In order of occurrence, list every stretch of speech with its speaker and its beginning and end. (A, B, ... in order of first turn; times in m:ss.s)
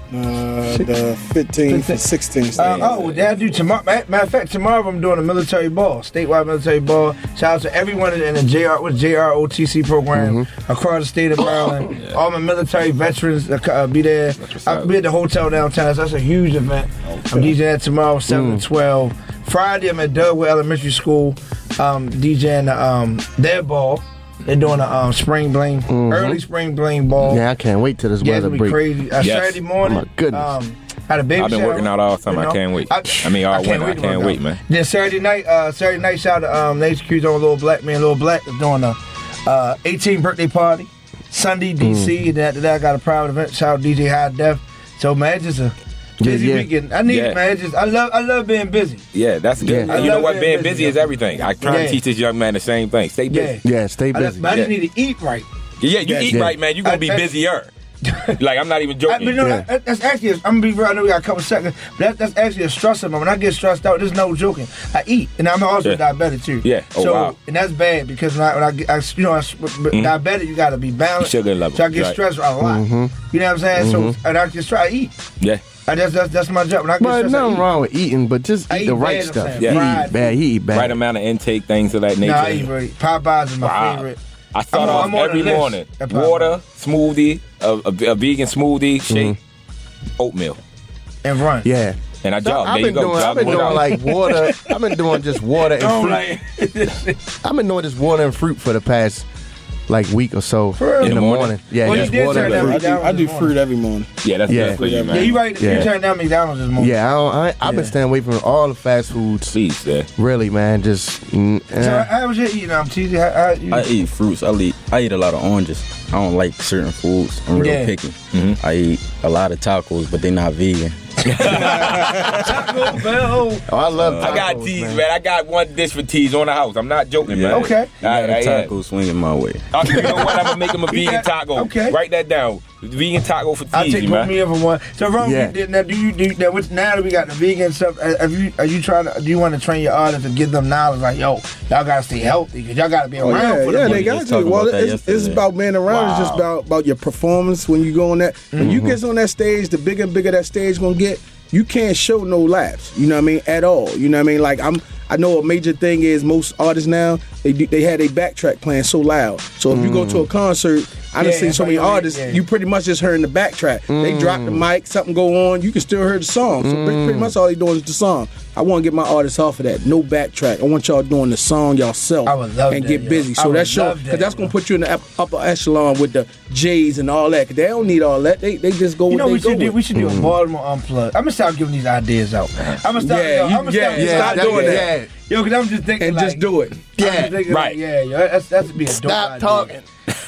0:00.1-0:03.0 A
0:01.7-0:02.0 B
0:02.6-0:03.6 C
0:02.6-0:27.4 B
0:10.1-0:10.5 D
0:11.8-0:12.2 C
0:14.4-0:14.9 C
0:18.3-0:18.6 D
0:25.9-0:26.4 D
0:27.2-0:28.8 D
0:28.2-0:49.0 B
0:29.2-0:29.6 C
0:29.8-0:30.5 D
0:31.4-0:34.6 C
0:41.8-0:42.1 D
0:46.2-0:46.7 D
0:47.1-0:47.4 C
0:49.1-0:53.6 C
0:49.6-0:50.2 D
0:49.9-0:52.0 B
0:53.3-0:55.5 B
0:53.6-0:54.5 D
0:55.8-0:57.7 C
0:56.0-0:57.3 B
0:56.3-0:56.6 D
0:58.0-0:58.3 B
0:58.3-0:59.5 C
0:59.1-1:15.1 B
0:59.4-0:59.6 D
1:06.6-1:07.3 C
1:11.2-1:12.2 C
1:12.6-1:13.2 D
1:13.7-1:14.2 D
1:15.8-1:17.6 B
1:17.0-1:21.0 D
1:18.7-1:20.3 B
1:19.6-1:20.0 C
1:20.7-1:22.7 C
1:22.2-1:24.2 B
1:23.6-1:29.4 C
1:24.7-1:26.5 B
1:29.1-1:29.4 D
1:30.2-1:30.6 C
1:31.2-1:31.7 B
1:31.6-1:36.3 D
1:32.2-1:34.1 C
1:35.7-1:37.2 B
1:37.4-1:39.2 D
1:39.9-1:42.8 D
1:40.8-1:43.5 B
1:41.0-1:42.7 C
1:42.2-1:45.4 A
1:44.2-1:45.9 C
1:44.5-1:44.8 D
1:45.1-1:46.9 B
1:45.6-1:45.9 D
1:46.8-1:49.6 D
1:47.6-1:47.9 B
1:49.5-1:50.1 C
1:50.2-1:52.1 D
1:51.8-1:53.9 B
1:53.7-2:02.6 E
1:57.6-1:57.9 B
1:58.3-1:58.6 C
2:01.2-2:02.5 C
2:01.4-2:03.7 B
2:03.7-2:05.0 D
2:04.0-2:04.4 E
2:04.2-2:08.7 C
2:07.2-2:10.0 E
2:07.5-2:07.9 B
2:09.7-2:14.3 C
2:09.8-2:12.0 B
2:13.7-2:24.1 B
2:15.2-2:15.5 D
2:23.2-2:59.8 A
2:23.8-2:25.9 E
2:25.9-2:26.4 C
2:28.5-2:28.8 B
2:28.6-2:29.0 D
2:39.7-2:40.3 D
2:41.2-2:42.4 B
2:43.9-2:44.6 D
2:46.6-2:47.3 D
2:52.2-2:54.5 B
2:59.1-3:06.4 B
2:59.9-3:00.3 D
3:02.9-3:04.8 A
3:03.9-3:05.1 D
3:04.1-3:04.8 C
3:06.0-3:06.8 A
3:07.0-3:09.7 B
3:07.0-3:07.4 D
3:07.5-3:07.8 C
3:08.8-3:09.8 D